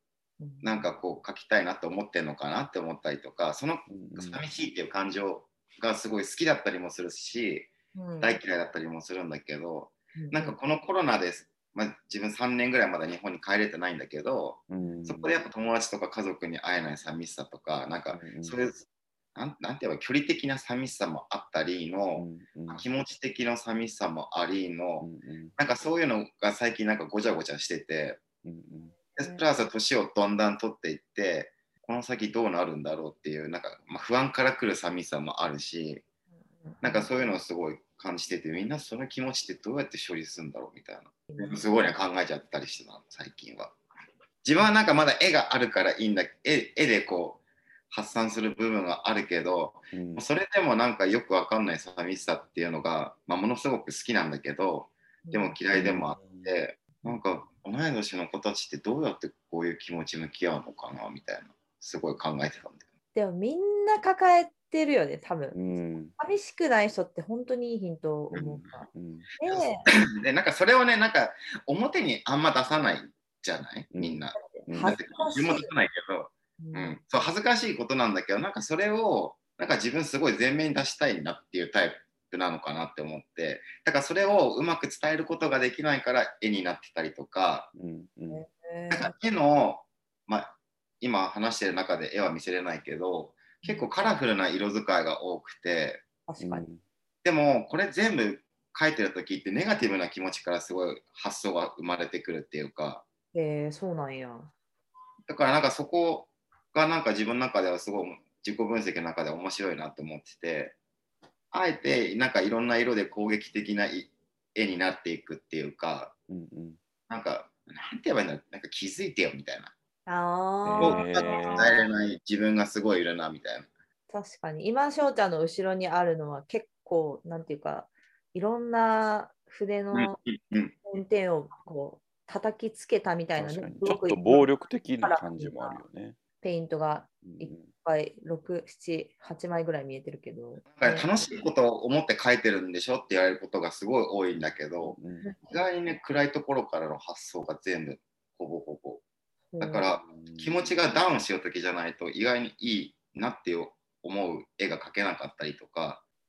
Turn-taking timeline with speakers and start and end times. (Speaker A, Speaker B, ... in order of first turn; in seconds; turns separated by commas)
Speaker A: 0.4-0.8, Speaker B: 0.6-7.7, Speaker C: 3.9-4.4, Speaker A: 8.0-8.4, Speaker B: 8.2-28.2, Speaker A: 10.2-10.6, Speaker C: 14.7-15.4, Speaker C: 18.1-18.6, Speaker C: 22.2-22.9, Speaker C: 25.0-25.6, Speaker C: 28.4-28.9, Speaker A: 29.2-29.4, Speaker B: 29.2-36.0, Speaker A: 36.6-37.1, Speaker B: 36.8-43.8, Speaker A: 41.3-41.9, Speaker B: 44.4-62.8, Speaker C: 49.9-50.2, Speaker A: 55.2-55.6, Speaker C: 55.7-56.5, Speaker A: 63.1-68.9, Speaker C: 65.5-66.1, Speaker C: 68.3-69.3, Speaker A: 69.4-69.8, Speaker B: 69.4-87.7, Speaker C: 73.9-75.0, Speaker A: 74.4-75.7, Speaker A: 76.6-77.0, Speaker C: 87.8-88.4, Speaker A: 88.3-89.1, Speaker B: 88.9-96.0, Speaker A: 96.3-96.7, Speaker C: 96.4-96.8, Speaker B: 97.2-103.0, Speaker A: 103.3-104.5, Speaker B: 105.3-110.8, Speaker B: 111.5-116.1, Speaker C: 116.3-116.8, Speaker B: 117.1-119.7, Speaker A: 120.1-121.9, Speaker C: 120.7-121.7, Speaker B: 120.8-123.7, Speaker A: 124.1-130.2, Speaker B: 129.9-130.8, Speaker A: 130.8-134.5, Speaker C: 133.4-136.2, Speaker A: 135.0-135.8, Speaker A: 136.4-141.1, Speaker C: 137.2-137.7, Speaker B: 140.8-149.0, Speaker C: 144.8-145.3, Speaker A: 149.5-149.9, Speaker B: 149.6-156.0, Speaker C: 150.0-150.8